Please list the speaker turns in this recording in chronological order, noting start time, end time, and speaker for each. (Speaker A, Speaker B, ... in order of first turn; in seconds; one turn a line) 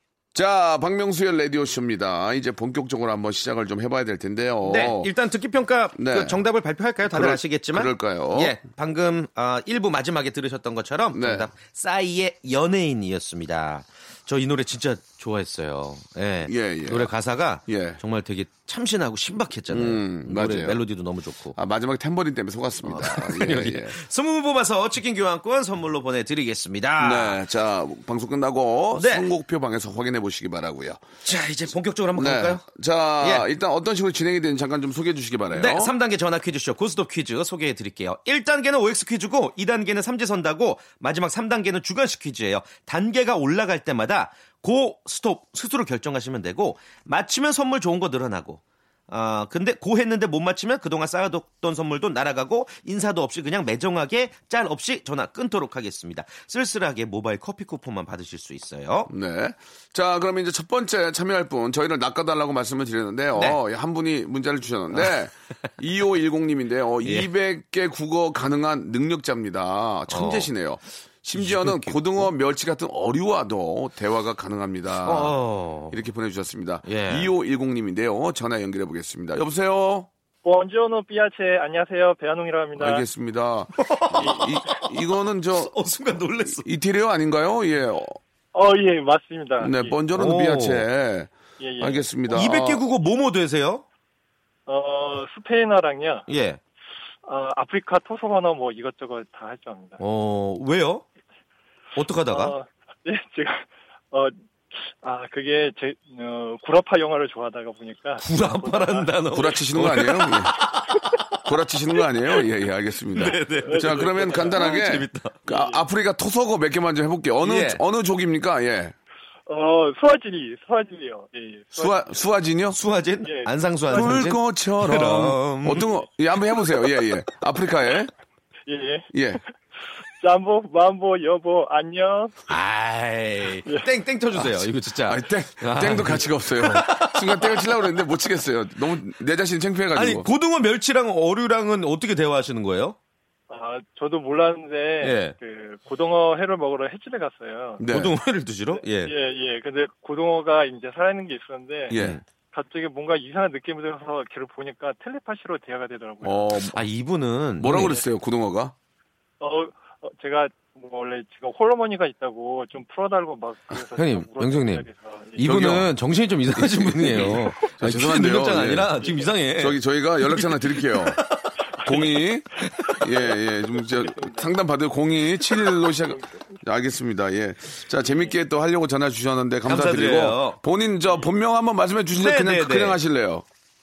Speaker A: 0.3-5.1
Speaker B: 4.6-21.6
Speaker A: 6.0-6.4
Speaker A: 7.0-8.6
Speaker A: 11.1-11.5
Speaker A: 16.4-17.1
Speaker A: 17.7-18.0
Speaker A: 19.7-20.8
Speaker A: 21.6-24.0
Speaker B: 22.8-27.4
Speaker A: 27.0-31.0
Speaker B: 29.0-29.3
Speaker B: 31.2-32.6
Speaker A: 32.1-35.9
Speaker B: 33.2-33.5
Speaker B: 35.5-59.1
Speaker A: 59.1-75.4
Speaker B: 63.3-63.6
Speaker B: 70.1-70.5
Speaker B: 71.4-72.3
Speaker B: 75.0-76.0
Speaker A: 75.9-80.1
Speaker B: 76.8-77.3
Speaker C: 80.5-83.0
Speaker A: 82.8-85.7
Speaker B: 83.8-84.9
Speaker C: 84.2-84.5
Speaker B: 85.5-86.7
Speaker A: 86.5-88.2
Speaker C: 88.5-90.0
Speaker A: 89.6-92.8
Speaker B: 90.2-90.9
Speaker C: 91.6-92.1
Speaker B: 92.3-93.8
Speaker C: 94.7-96.2
Speaker B: 96.3-96.6
Speaker C: 97.3-100.0
Speaker B: 100.0-101.0
Speaker B: 102.0-102.5
Speaker C: 102.3-109.1
Speaker B: 108.2-111.2
Speaker A: 109.3-110.6
Speaker A: 111.4-119.0
Speaker B: 113.2-115.4
Speaker C: 113.7-114.7
Speaker C: 115.5-115.8
Speaker B: 117.4-117.8
Speaker C: 119.5-122.2
Speaker A: 121.7-122.8
Speaker B: 122.7-125.9
Speaker C: 123.2-124.3
Speaker A: 123.9-128.1
Speaker C: 128.7-129.1
Speaker A: 129.1-129.4
Speaker C: 130.2-132.3
Speaker B: 132.5-137.8
Speaker A: 134.4-140.3
Speaker B: 139.9-143.0
Speaker C: 143.5-147.8
Speaker B: 145.0-145.3
Speaker A: 147.8-148.1
Speaker B: 147.9-149.1
Speaker C: 149.0-151.9
Speaker A: 151.9-152.2
Speaker B: 151.9-152.2
Speaker C: 152.5-156.5
Speaker A: 156.2-156.8
Speaker B: 156.7-158.0
Speaker A: 157.6-158.7
Speaker C: 159.4-165.4
Speaker B: 164.0-164.9
Speaker B: 165.4-171.5
Speaker A: 165.4-165.9
Speaker A: 166.6-169.0
Speaker A: 169.6-171.2
Speaker A: 171.8-183.4
Speaker C: 171.9-172.1
Speaker B: 172.6-173.0
Speaker C: 173.9-174.5
Speaker B: 179.7-180.6
Speaker B: 182.2-183.0